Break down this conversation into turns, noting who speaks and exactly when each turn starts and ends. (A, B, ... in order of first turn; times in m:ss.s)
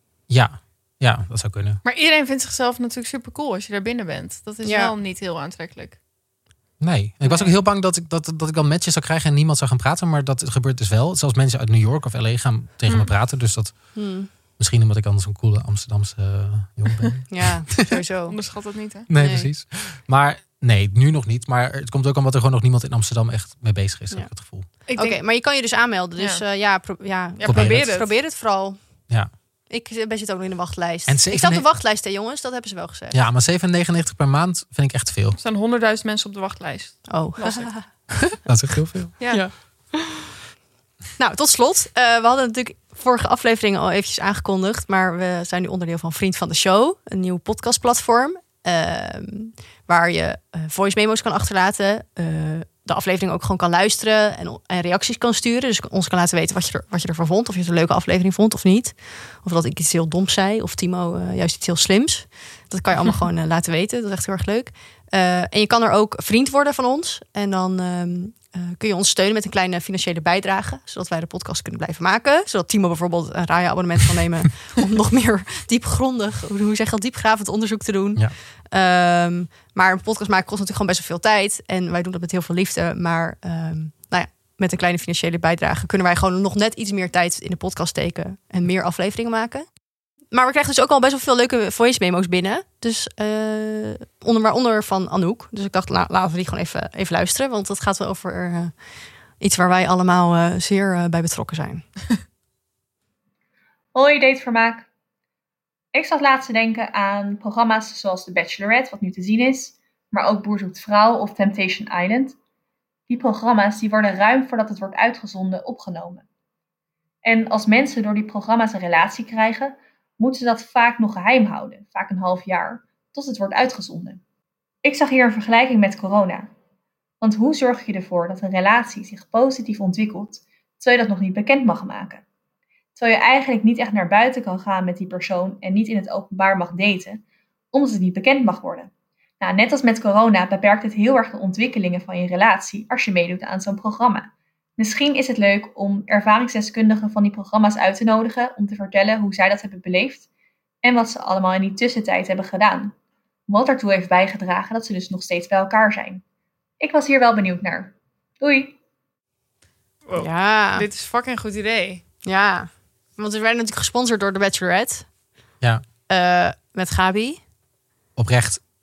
0:00.3-0:01.8 A
0:01.8-0:06.0 B
0:04.6-0:04.9 C
0:06.8-0:13.8 A
0:07.2-0:07.5 C
0:14.0-0:14.3 C
0:14.6-0:18.0 A
0:17.3-0:18.4 C
0:18.3-0:19.1 B
0:19.1-0:24.7 A
0:19.2-0:19.5 C
0:24.9-0:25.2 B
0:25.0-0:28.8 C
0:26.2-0:26.4 B
0:27.4-0:28.1 B
0:27.4-0:27.9 A
0:29.7-0:33.2 C
0:31.1-0:31.7 A
0:33.1-0:35.4 A
0:35.4-0:37.7 B
0:37.1-0:37.8 C
0:38.4-0:39.2 A
0:39.3-0:40.3 C
0:41.2-1:29.7 C
1:30.3-1:38.7 C
1:39.4-1:41.8 C
1:43.9-1:44.9 D
1:45.9-1:52.4 D
1:53.1-1:56.2 D
1:57.2-2:04.2 D
2:04.8-2:06.5 D
2:07.2-2:12.2 D
2:13.0-2:17.2 D
2:17.7-2:30.3 D
2:30.8-2:32.9 D
2:33.5-2:36.2 D
2:36.8-2:38.8 D
2:40.1-2:42.0 B
2:40.2-2:40.9 C
2:42.2-2:45.1 C
2:46.1-2:47.4 C
2:48.2-2:48.6 A